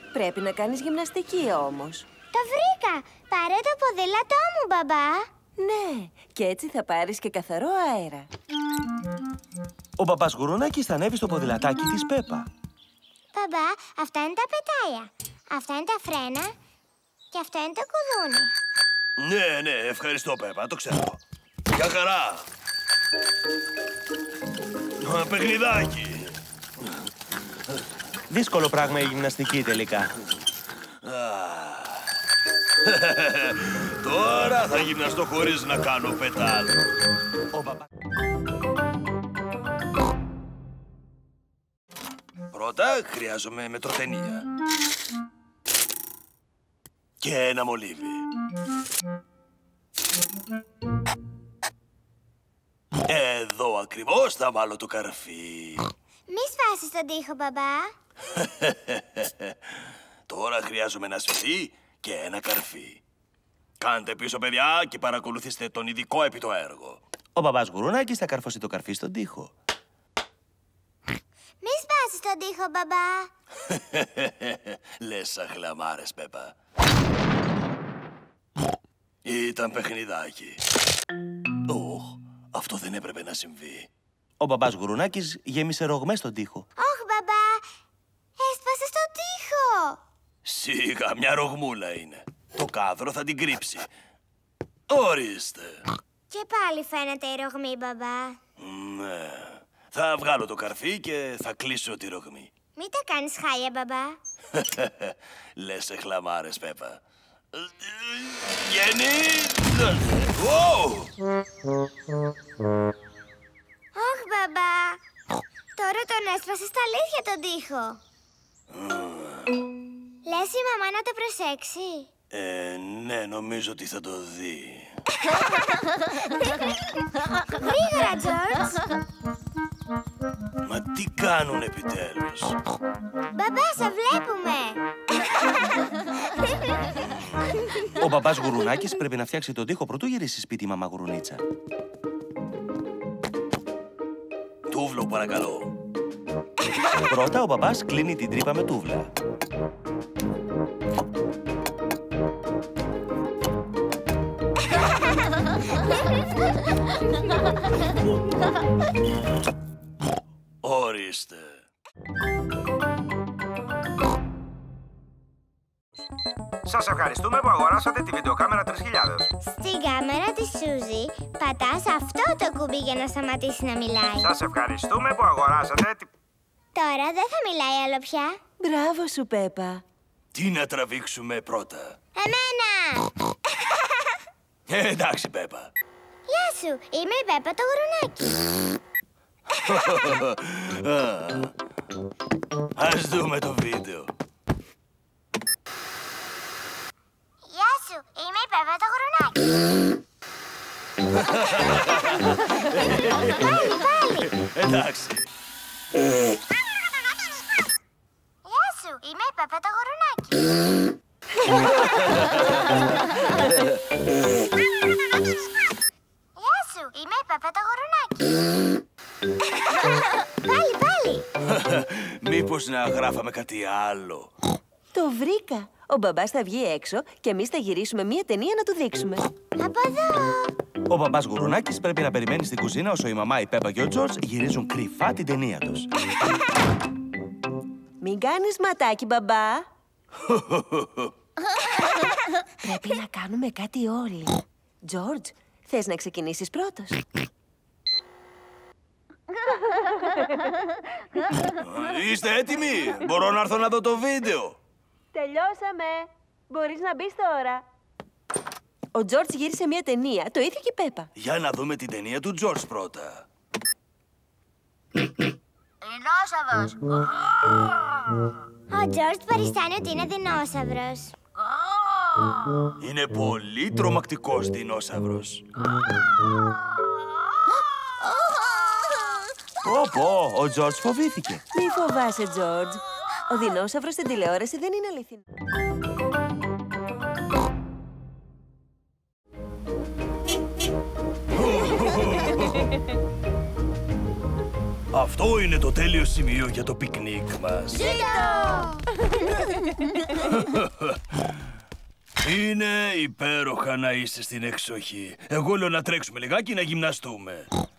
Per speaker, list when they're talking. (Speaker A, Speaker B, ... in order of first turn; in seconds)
Speaker A: 0.1-2.0, 5.6-8.3, 178.6-179.8, 224.9-229.3, 238.0-239.7, 242.6-247.0, 255.1-257.6, 258.9-261.1, 281.5-285.2
Speaker B: 2.3-5.3, 13.3-16.5, 17.3-18.6, 56.3-57.9, 71.6-73.3, 86.8-87.7, 88.4-90.0, 96.3-98.4, 102.8-104.2, 113.9-115.0, 115.8-118.0, 120.2-122.1, 126.3-126.7, 127.4-128.8, 133.3-134.8, 169.4-174.3, 176.7-178.4, 182.2-183.1, 186.3-188.4, 197.5-199.5, 203.2-204.3, 208.4-210.5, 216.4-218.4, 219.8-221.2, 229.6-230.5, 268.7-271.1, 297.7-298.8
Speaker C: 10.0-12.5, 28.3-30.1, 37.5-37.9, 67.3-69.5, 84.4-86.7, 137.9-141.4, 147.1-149.1, 230.8-235.9, 279.6-281.4
Speaker D: 19.2-22.4, 25.0-26.4, 31.0-32.1, 32.8-36.8, 42.5-44.5, 47.2-48.3, 53.0-55.9, 58.4-59.5, 60.3-63.0, 63.8-67.0, 73.7-76.5, 79.2-80.6, 81.7-83.9, 90.4-93.9, 94.9-95.8, 98.6-102.5, 104.5-107.0, 107.5-111.1, 118.7-119.5, 122.3-124.9, 130.6-132.6, 144.7-145.7, 160.6-161.6, 180.3-182.0, 184.7-185.7, 189.5-191.5, 192.8-194.1, 201.1-203.6, 204.3-205.3, 211.7-213.8, 221.4-224.3, 240.3-241.1, 251.5-254.6, 261.1-263.2, 265.8-267.0, 272.8-275.4, 291.3-292.7, 294.9-297.9, 300.2-300.9, 302.2-307.5
Speaker E: 166.7-169.3, 174.2-176.1